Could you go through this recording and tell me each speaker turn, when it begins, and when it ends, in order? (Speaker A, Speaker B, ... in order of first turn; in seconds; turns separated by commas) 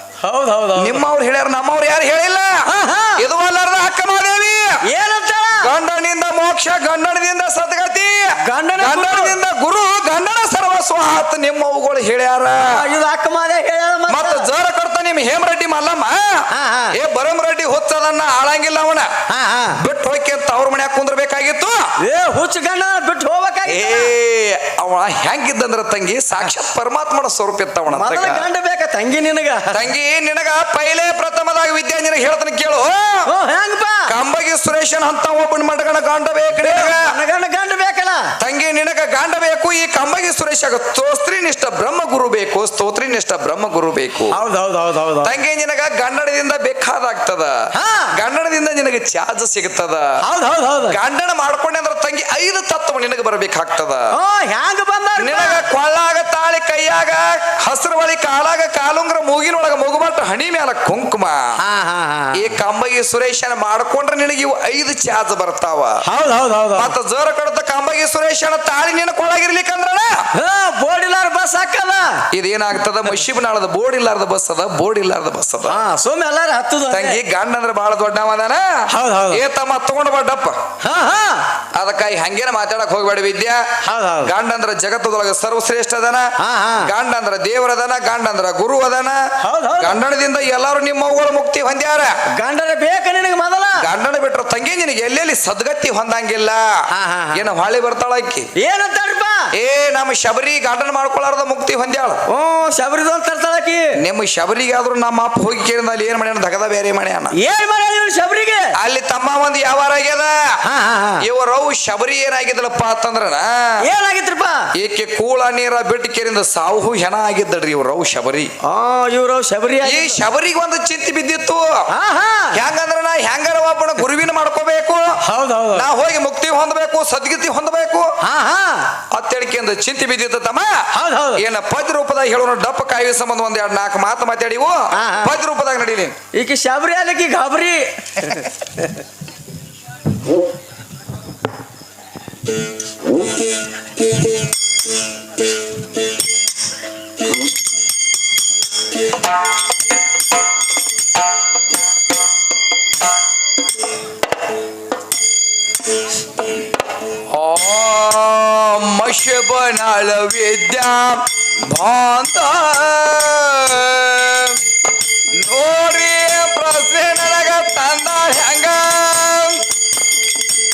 Speaker A: 0.2-1.0, Speaker B: 0.7-2.6, Speaker A: 2.7-3.2, Speaker B: 3.2-4.8, Speaker A: 4.9-5.7, Speaker B: 5.6-12.8, Speaker A: 8.4-9.3, Speaker A: 12.6-14.5, Speaker B: 14.1-19.1, Speaker A: 16.5-16.9, Speaker A: 19.3-19.8, Speaker B: 19.8-21.8, Speaker A: 22.0-24.1, Speaker B: 23.6-28.4, Speaker A: 27.9-29.8, Speaker B: 29.7-33.2, Speaker A: 33.3-34.1, Speaker B: 34.1-37.1, Speaker A: 36.6-38.2, Speaker B: 38.4-44.4, Speaker A: 44.3-45.3, Speaker B: 45.2-47.5, Speaker A: 47.7-48.1, Speaker B: 48.1-50.1, Speaker A: 50.2-51.0, Speaker B: 50.9-54.0, Speaker A: 54.1-55.6, Speaker B: 55.2-61.4, Speaker A: 61.6-62.5, Speaker B: 62.3-66.0, Speaker A: 66.0-66.9, Speaker B: 66.7-70.1, Speaker A: 70.4-72.2, Speaker B: 72.3-75.8, Speaker A: 75.7-77.2, Speaker B: 76.9-80.6, Speaker A: 78.9-79.4, Speaker A: 80.8-81.4, Speaker B: 81.8-83.7, Speaker A: 83.8-84.3, Speaker B: 84.2-86.3, Speaker A: 86.4-86.9, Speaker B: 86.8-89.2, Speaker A: 89.4-90.0, Speaker B: 89.8-92.1, Speaker A: 92.3-93.9, Speaker B: 93.8-96.6, Speaker A: 96.9-97.4, Speaker B: 97.3-98.5, Speaker A: 98.6-99.5, Speaker B: 99.5-102.2, Speaker A: 102.3-103.9, Speaker B: 104.0-107.3, Speaker A: 107.3-108.7, Speaker B: 108.8-110.4, Speaker A: 110.6-111.2, Speaker B: 111.2-113.8, Speaker A: 113.8-114.6, Speaker B: 114.8-118.5, Speaker A: 118.6-120.2, Speaker B: 119.8-121.7, Speaker A: 121.9-122.6, Speaker B: 122.5-125.2, Speaker A: 125.3-125.9, Speaker B: 125.7-128.1, Speaker A: 128.2-128.9, Speaker B: 129.1-130.8, Speaker A: 130.9-131.4, Speaker B: 131.3-136.2, Speaker A: 134.9-135.4, Speaker A: 136.3-138.9, Speaker B: 157.3-164.6, Speaker B: 165.4-169.6